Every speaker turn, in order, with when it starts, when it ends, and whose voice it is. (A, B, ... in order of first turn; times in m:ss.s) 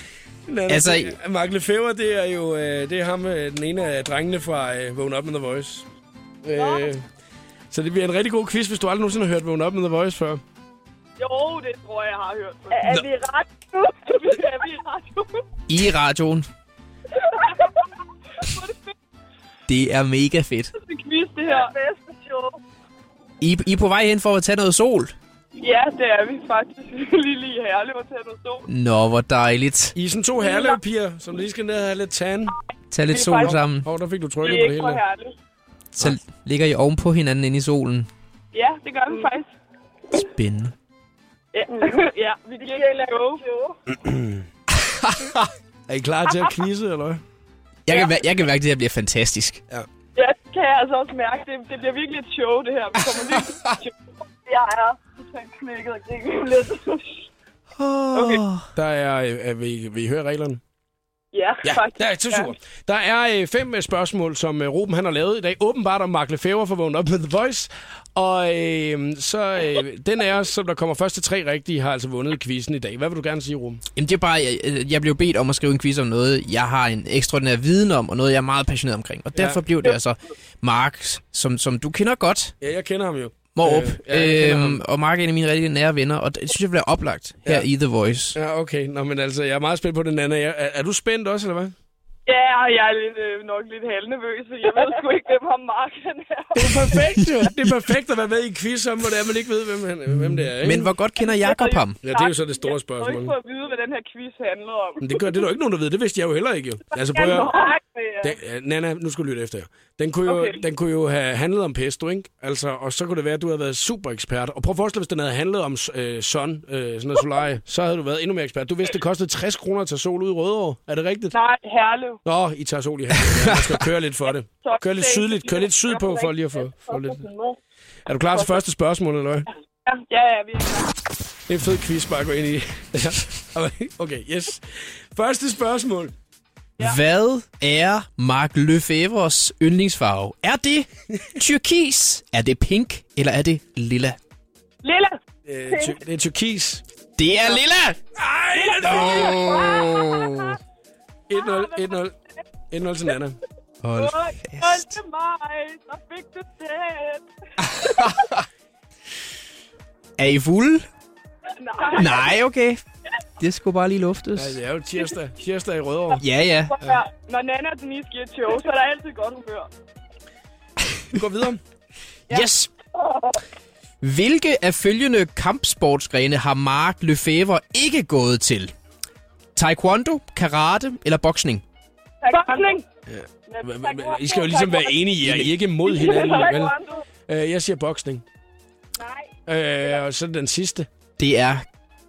0:00.5-0:05.9 A
0:00.7-0:01.2 B
0:06.4-0:07.0 A
0:06.6-0:06.9 C
0:07.7-0:10.4 A
0:11.2-0:15.4 C
0:15.7-0:16.5 B
0:17.2-0:17.7 C
0:18.4-0:18.9 C
0:19.7-0:20.7 B
0:20.8-0:22.6 C
0:23.4-0:25.2 B
0:25.6-0:28.6 C
0:28.7-0:30.0 B
0:30.0-0:32.6 A
0:30.4-0:30.8 C
0:32.9-0:33.9 B
0:33.1-0:33.6 C
0:33.4-0:35.0 A
0:34.4-0:35.4 C
0:36.0-0:38.1 B
0:38.5-0:39.5 C
0:40.1-0:40.7 B
0:41.5-0:43.7 C
0:43.9-0:44.5 A
0:44.8-0:45.5 B
0:45.9-0:47.2 A
0:47.9-0:49.6 B
0:50.2-0:53.9 C
0:53.3-0:53.7 B
0:54.5-0:57.0 C
0:57.8-0:58.7 B
0:58.1-0:58.4 C
0:58.8-1:00.6 A
1:01.3-1:02.5 C
1:01.6-1:13.8 A
1:14.0-1:22.6 B
1:19.4-1:19.6 A
1:22.6-1:24.8 A
1:23.6-1:28.4 B
1:28.4-1:31.7 A
1:32.3-1:37.1 C
1:36.6-1:40.9 A
1:37.2-1:37.7 B
1:40.1-1:42.0 B
1:41.2-1:45.4 C
1:42.0-1:43.4 A
1:45.0-1:47.6 A
1:46.9-1:48.4 C
1:48.2-2:01.4 A
1:50.3-1:50.7 C
2:01.3-2:02.2 C
2:02.2-2:07.2 A
2:03.4-2:03.8 B
2:04.6-2:07.6 C
2:08.1-2:09.5 A
2:08.3-2:08.6 C
2:09.8-2:10.9 C
2:11.5-2:16.1 A
2:16.8-2:24.2 B
2:24.8-2:25.2 C
2:25.5-2:26.8 A
2:25.7-2:26.0 C
2:27.2-2:28.0 B
2:28.2-2:29.8 A
2:28.5-2:30.3 C
2:28.8-2:30.6 B
2:31.3-2:32.1 A
2:31.3-2:32.0 C
2:32.7-2:33.4 A
2:33.8-2:35.0 B
2:34.0-2:37.2 C
2:37.7-2:38.4 B
2:37.8-2:38.0 C
2:40.2-2:40.9 B
2:41.6-2:42.4 C
2:42.0-2:42.8 B
2:43.4-2:44.6 B
2:44.4-2:46.2 A
2:46.2-2:46.8 B
2:46.8-2:49.7 C
2:51.1-2:51.6 A
2:52.3-2:52.7 B
2:52.3-2:53.2 C
2:54.0-2:58.7 B
2:59.6-3:01.6 B
3:02.2-3:02.9 C
3:03.1-3:06.8 A
3:03.5-3:05.0 C
3:05.2-3:05.5 B
3:05.8-3:07.0 C
3:07.3-3:08.2 A
3:09.5-3:10.9 A
3:11.2-3:11.6 B